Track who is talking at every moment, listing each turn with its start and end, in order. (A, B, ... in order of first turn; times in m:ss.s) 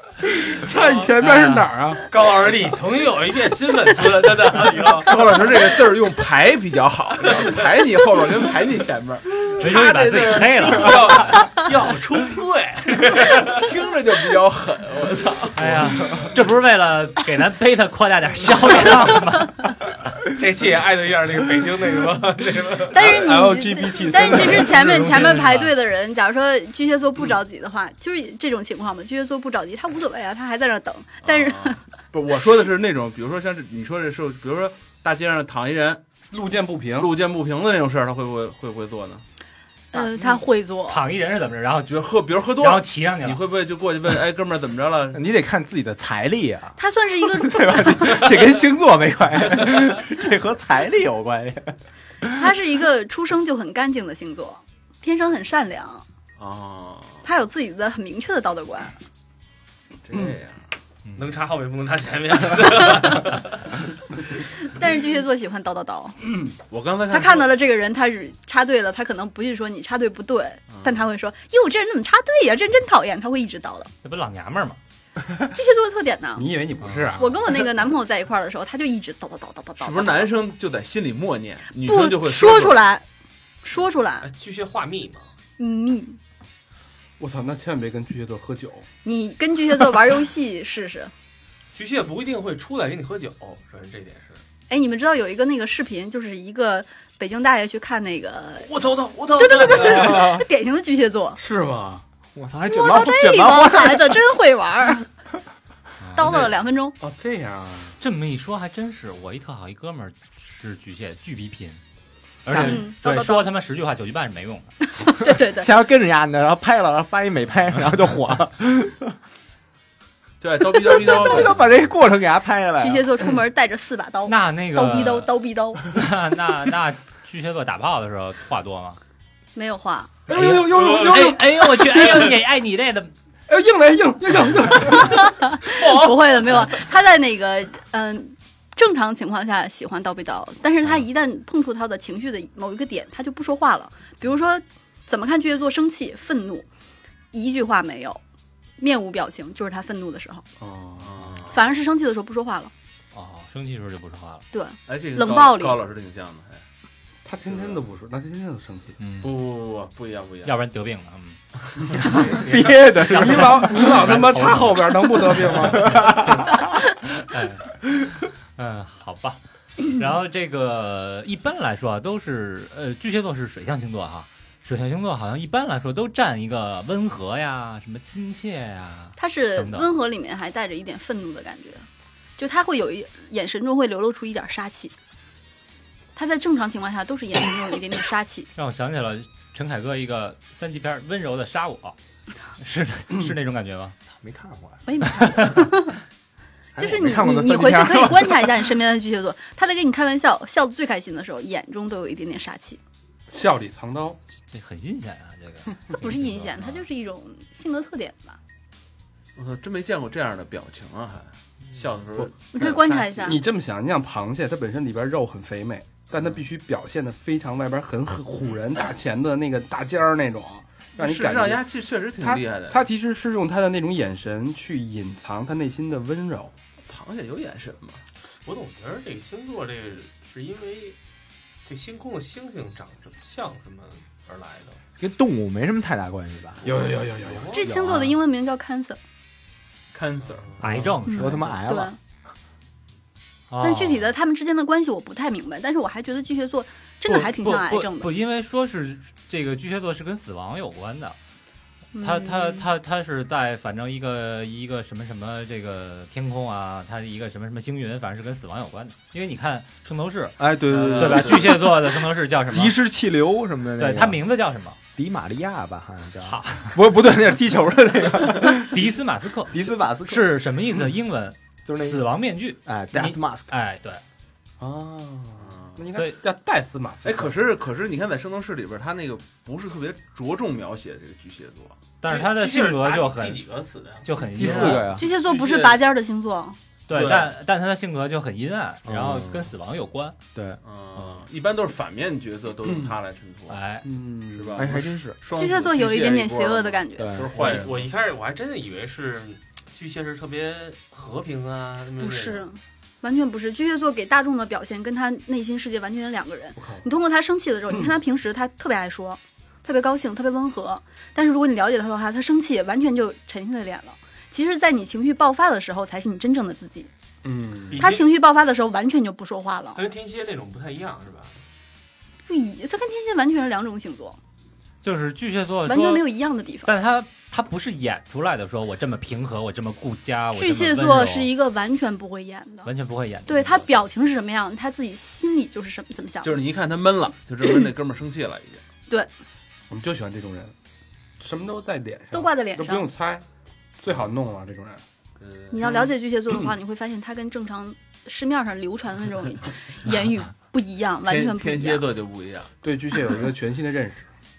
0:00.6-0:02.0 A
0:00.7-0:01.0 B
0:01.2-0:01.6 C
0:02.1-0:05.3 B
0:05.0-0:11.3 D
0:09.5-0:13.5 B
0:09.6-0:11.5 C
0:13.3-0:16.3 D
0:15.5-0:19.9 C
0:20.3-0:23.1 B
0:22.9-0:31.8 E
0:22.9-0:25.0 A
0:24.6-0:25.7 C
0:31.2-0:36.0 D
0:36.3-0:37.1 A
0:37.0-0:39.2 D
0:39.9-0:41.0 E
0:40.8-0:43.4 C
0:41.9-0:45.2 D
0:45.1-0:52.4 F
0:46.8-0:48.3 E
0:52.3-0:56.0 E
0:56.4-0:57.2 D
0:57.2-0:59.0 E
1:00.0-1:00.6 D
1:01.2-1:03.6 B
1:04.6-1:06.3 E
1:06.7-1:07.5 D
1:07.1-1:13.9 E
1:10.7-1:11.0 D
1:14.0-1:14.8 C
1:15.5-1:16.5 E
1:16.4-1:17.6 A
1:16.8-1:17.1 C
1:17.2-1:20.3 E
1:19.8-1:22.8 D
1:21.8-1:23.0 E
1:23.6-1:24.3 E
1:24.2-1:25.3 B
1:25.6-1:26.2 E
1:27.2-1:28.9 A
1:29.0-1:31.1 E
1:31.7-1:34.4 B
1:34.7-1:38.7 E
1:38.6-1:40.3 B
1:39.3-1:41.4 E
1:40.0-1:40.4 F
1:41.4-1:42.0 A
1:42.3-1:44.3 F
1:42.6-1:45.1 E
1:46.0-1:46.4 C
1:46.1-1:47.0 E
1:47.0-1:48.0 A
1:48.0-1:51.8 C
1:52.4-1:54.7 C
1:52.5-1:52.8 F
1:52.6-1:53.5 E
1:54.8-1:55.7 E
1:55.4-1:59.2 F
2:00.4-2:01.8 D
2:00.7-2:03.2 F
2:02.8-2:05.9 E
2:04.3-2:05.3 C
2:05.8-2:09.0 C
2:09.5-2:10.1 E
2:10.3-2:12.3 A
2:10.3-2:13.1 C
2:13.5-2:15.2 A
2:14.8-2:26.7 E
2:15.8-2:16.3 B
2:27.3-2:28.2 E
2:28.8-2:30.4 E
2:30.6-2:31.3 A
2:31.0-2:31.6 D
2:31.5-2:32.7 E
2:33.1-2:34.4 C
2:34.5-2:35.8 E
2:34.9-2:36.6 D
2:37.2-2:39.0 A
2:39.0-2:39.4 C
2:39.2-2:40.5 D
2:40.4-2:42.4 C
2:42.3-2:44.0 F
2:42.4-2:42.8 B
2:43.1-2:46.2 A
2:43.1-2:46.2 C
2:45.6-2:46.6 F
2:47.1-2:59.9 C
2:59.2-3:01.8 E
3:02.4-3:04.9 E
3:06.2-3:08.5 E
3:08.6-3:12.0 C
3:12.6-3:14.0 C
3:14.1-3:14.8 F
3:14.8-3:16.0 E
3:15.0-3:15.7 C
3:16.7-3:18.7 F
3:16.8-3:22.8 E
3:23.3-3:24.2 A
3:24.5-3:26.8 C
3:25.9-3:28.4 E
3:29.3-3:32.8 D
3:32.2-3:41.6 A
3:32.5-3:33.4 E
3:41.0-3:42.8 D
3:42.2-3:46.5 A
3:46.8-3:48.0 D
3:48.4-3:51.0 B
3:51.6-3:54.8 B
3:55.0-3:56.8 F
3:56.6-3:57.5 A
3:57.1-3:57.6 B
3:57.5-3:59.0 E
3:57.8-3:58.1 F
3:59.9-4:01.0 D
4:00.6-4:01.5 C
4:01.0-4:02.0 F
4:01.1-4:02.0 E
4:03.5-4:04.1 C
4:03.6-4:08.1 E
4:07.1-4:11.2 C
4:11.9-4:12.7 E
4:12.0-4:22.8 C
4:20.4-4:21.6 F
4:20.6-4:21.7 D
4:22.5-4:24.2 F
4:23.8-4:24.8 C
4:25.0-4:28.8 F
4:26.2-4:26.8 C
4:28.4-4:34.0 C
4:29.5-4:30.3 F
4:31.6-4:32.0 F
4:32.6-4:33.5 F
4:34.6-4:37.3 A
4:35.4-4:35.8 D
4:37.0-4:41.8 D
4:42.0-4:43.4 C
4:42.0-4:44.9 B
4:44.0-4:45.0 C
4:44.4-4:45.0 F
4:45.0-4:46.6 E
4:45.2-4:45.8 D
4:46.9-4:50.2 C
4:46.9-4:47.3 D
4:48.9-4:49.5 F
4:50.6-4:53.6 D
4:53.5-4:53.9 C
4:53.8-4:54.7 A
4:54.3-4:57.9 D
4:54.6-4:55.2 F
4:55.3-4:57.2 E
4:57.0-4:57.3 F
4:57.3-5:02.4 B
5:02.0-5:16.9 E
5:06.6-5:06.8 A
5:17.2-5:17.8 A
5:17.7-5:18.0 B
5:17.8-5:19.8 E
5:19.7-5:21.4 B
5:22.2-5:24.2 E
5:24.8-5:26.1 C
5:25.6-5:26.7 E
5:26.6-5:31.3 C
5:30.3-5:32.7 E
5:32.6-5:33.7 C
5:33.3-5:36.4 E
5:36.2-5:38.6 D
5:39.7-5:40.5 A
5:41.2-5:43.2 A
5:42.1-5:42.9 E
5:43.8-5:44.8 A
5:45.2-5:45.8 D
5:45.5-5:51.8 E
5:51.1-5:52.5 D
5:52.6-5:54.1 A